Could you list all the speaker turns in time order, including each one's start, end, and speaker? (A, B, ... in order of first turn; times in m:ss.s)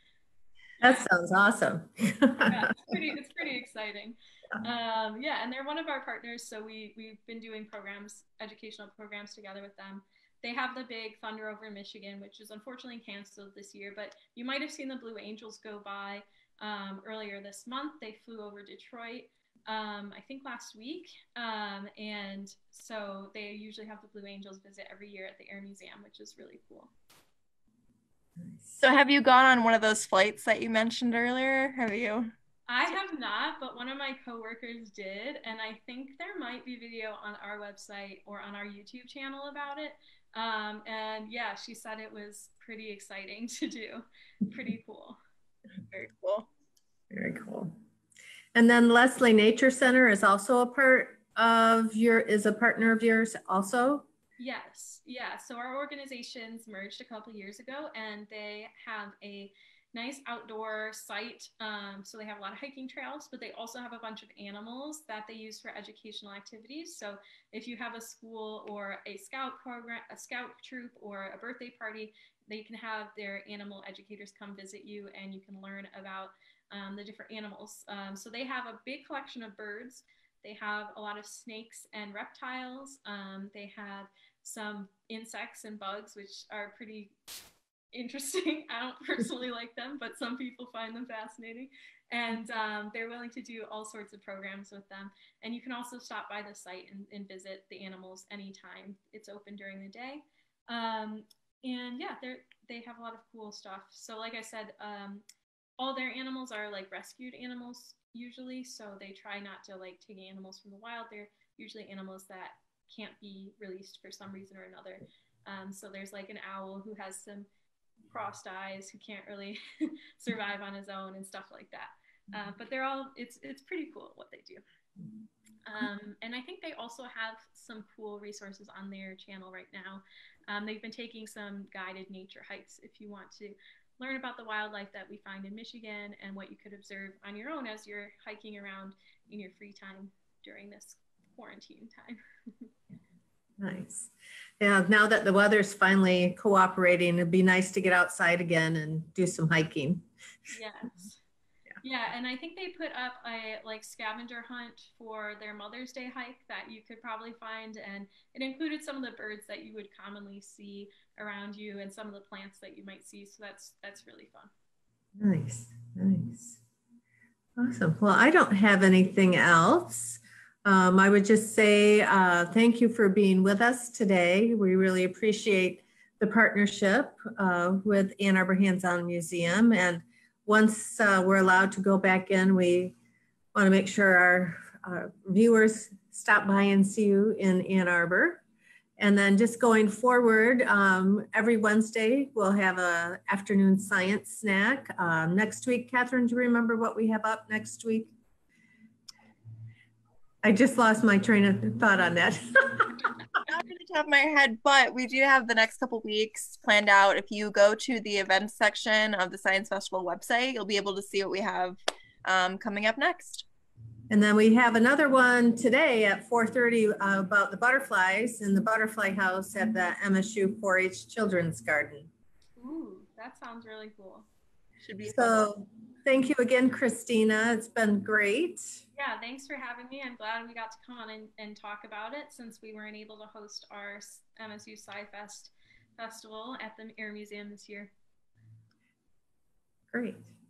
0:00.8-0:02.7 A
0:00.8-0:01.1 B
0:02.5-0:26.9 B
0:28.4-0:28.7 A
0:28.8-0:32.3 C
0:32.7-0:45.2 B
0:45.9-0:46.5 C
0:47.1-0:47.7 A
0:48.5-0:54.1 A
0:54.4-1:27.1 B
1:27.9-1:45.2 B
1:45.8-1:57.5 B
1:58.1-2:04.6 B
2:05.6-2:22.7 B
2:23.6-2:30.0 A
2:30.5-2:31.2 B
2:31.8-2:44.5 B
2:45.2-2:46.6 A
2:47.6-3:02.9 A
3:03.5-3:08.4 A
3:09.0-3:18.1 A
3:20.4-3:23.1 A
3:23.4-3:33.5 C
3:34.1-3:42.1 A
3:42.6-3:44.3 B
3:44.8-3:45.5 C
3:45.1-3:48.8 A
3:48.9-3:57.9 B
3:59.9-4:00.3 A